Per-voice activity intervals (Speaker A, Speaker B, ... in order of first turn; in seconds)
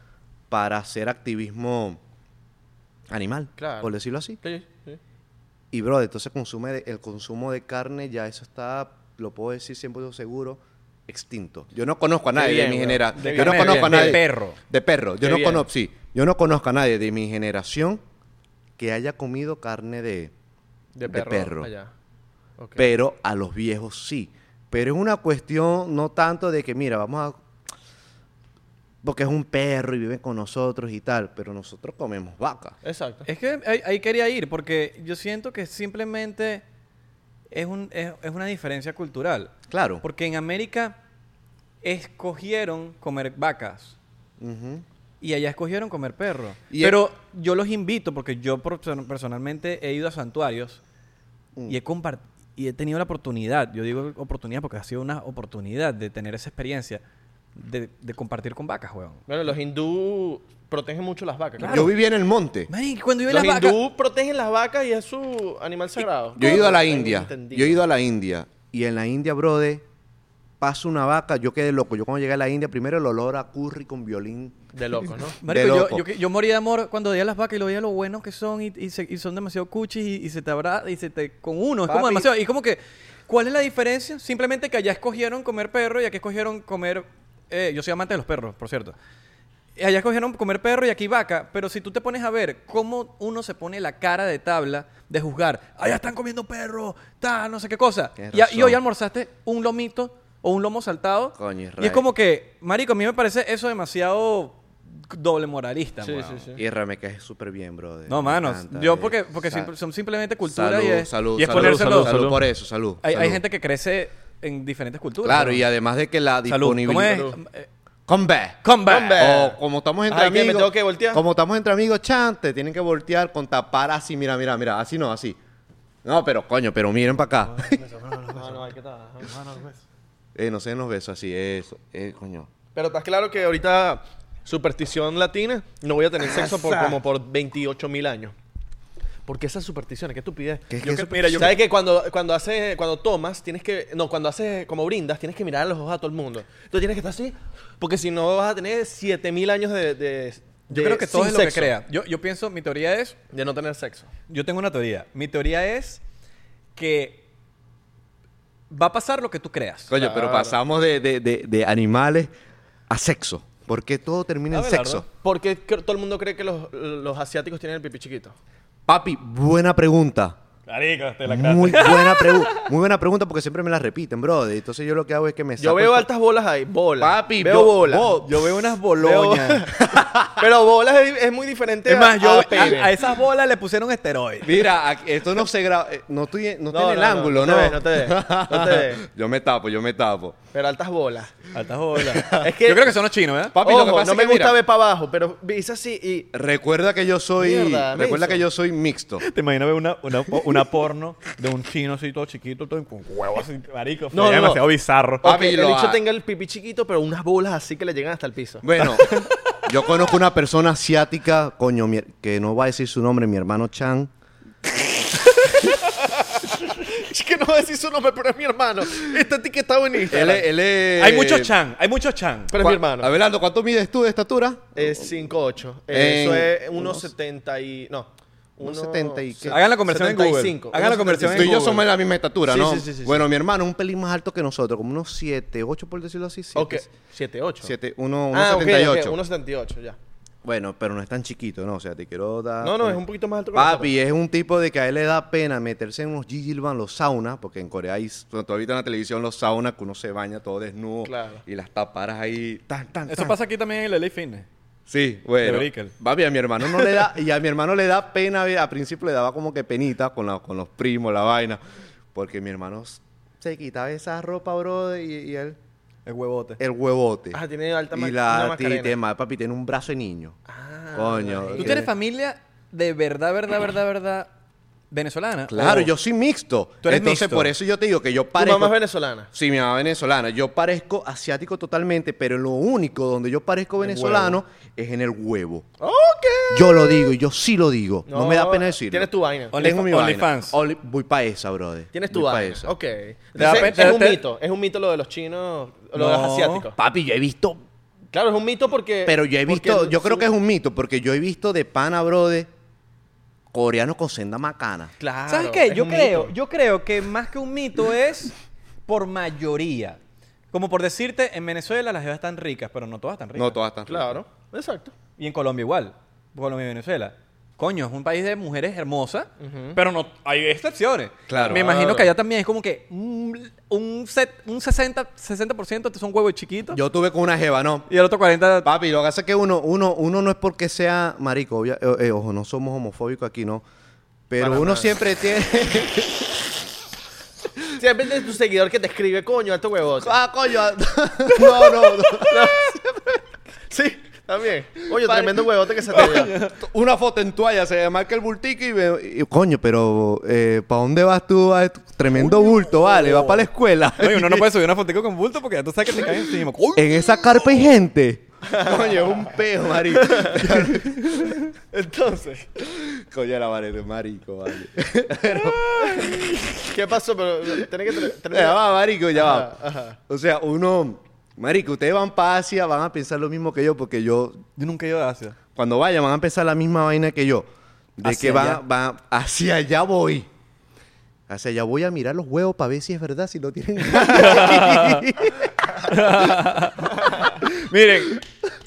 Speaker A: 0.5-2.0, 3.1-4.4, 5.7-18.0, 18.8-20.3, 21.1-21.7, 22.8-27.4, 29.0-32.8, 39.7-40.0, 44.4-44.8, 46.7-47.0, 61.6-62.7, 66.3-69.8, 70.6-74.6, 75.4-76.0, 81.9-82.3, 98.2-98.8, 101.3-102.0, 106.5-109.7, 110.4-113.4, 115.2-117.3, 118.1-125.4, 126.0-127.8, 130.3-132.5, 140.7-141.6, 159.9-162.3, 162.9-165.0, 168.9-170.4, 171.3-176.1, 177.0-178.4, 179.8-180.4, 184.4-190.4, 192.1-192.4, 193.5-194.6, 196.3-199.2, 205.2-206.0, 208.6-214.1, 220.1-221.5, 222.6-225.0, 225.9-227.1, 228.6-229.6, 231.3-236.9, 237.6-239.2, 240.4-243.0, 243.5-253.4, 254.9-261.6, 262.1-265.6, 266.6-267.4, 267.9-270.4, 270.9-271.9, 275.5-278.7, 279.3-285.6, 286.5-292.7, 293.4-293.9, 296.8-297.6, 299.0-302.5, 303.5-304.9, 313.4-314.2, 321.3-321.7, 326.7-327.9, 328.6-333.6, 334.3-336.5, 340.0-343.1, 344.9-345.4, 346.0-354.5, 356.7-361.4, 362.6-366.6, 368.3-374.4, 375.5-377.4, 378.0-380.3, 381.3-386.3
Speaker B: 3.6-5.0, 12.3-14.2, 15.2-15.6, 20.9-21.9, 22.6-22.9, 32.8-33.2, 59.3-61.9, 63.3-67.8, 74.7-75.4, 106.0-106.6, 111.5-112.3, 117.0-117.4, 118.8-121.2, 127.8-129.6, 132.7-138.3, 139.2-140.7, 141.3-151.7, 153.3-154.1, 159.9-160.6, 165.2-168.3, 175.6-178.2, 179.0-182.9, 186.7-189.0, 190.5-191.3, 192.2-192.9, 193.6-196.3, 197.4-198.4, 204.1-204.6, 205.2-209.2, 216.4-220.5, 222.5-223.1, 224.7-231.8, 232.4-233.2, 236.5-237.7, 238.3-240.0, 242.6-243.9, 251.0-251.4, 267.3-268.9, 270.5-271.8, 278.4-279.3, 285.8-287.1, 288.1-289.7, 291.9-296.8, 298.1-300.3, 305.0-306.3, 313.9-314.9, 319.4-319.8, 321.3-322.1, 334.4-334.9, 337.8-340.2, 342.1-342.7, 343.7-346.4, 358.4-359.3, 359.9-360.8, 361.7-362.5, 365.8-370.0
Speaker C: 13.2-14.6, 33.2-36.6, 37.5-41.0, 41.8-44.0, 45.2-50.8, 51.7-57.0, 57.5-59.2, 61.6-61.9, 62.7-63.8, 75.4-88.9, 89.8-106.5, 108.1-112.4, 113.0-115.6, 116.5-117.7, 118.6-119.2, 136.4-136.8, 140.8-141.6, 150.7-153.2, 154.3-156.0, 156.8-157.2, 158.7-159.9, 164.5-165.0, 170.7-172.7, 178.1-179.7, 181.8-184.7, 191.5-193.6, 199.2-205.2, 220.9-222.5, 229.5-231.8, 253.1-254.4, 255.4-255.9, 266.1-266.6, 271.6-274.3, 274.9-275.9, 276.8-277.5, 283.9-284.3, 289.5-290.6, 293.4-294.2, 295.9-296.7, 305.3-308.3, 308.9-310.0, 310.5-313.6, 315.2-326.8, 327.9-328.7, 345.9-346.6, 352.2-353.4, 354.0-357.5, 365.3-366.2, 374.6-375.4, 378.0-378.6, 383.9-385.1, 385.8-388.3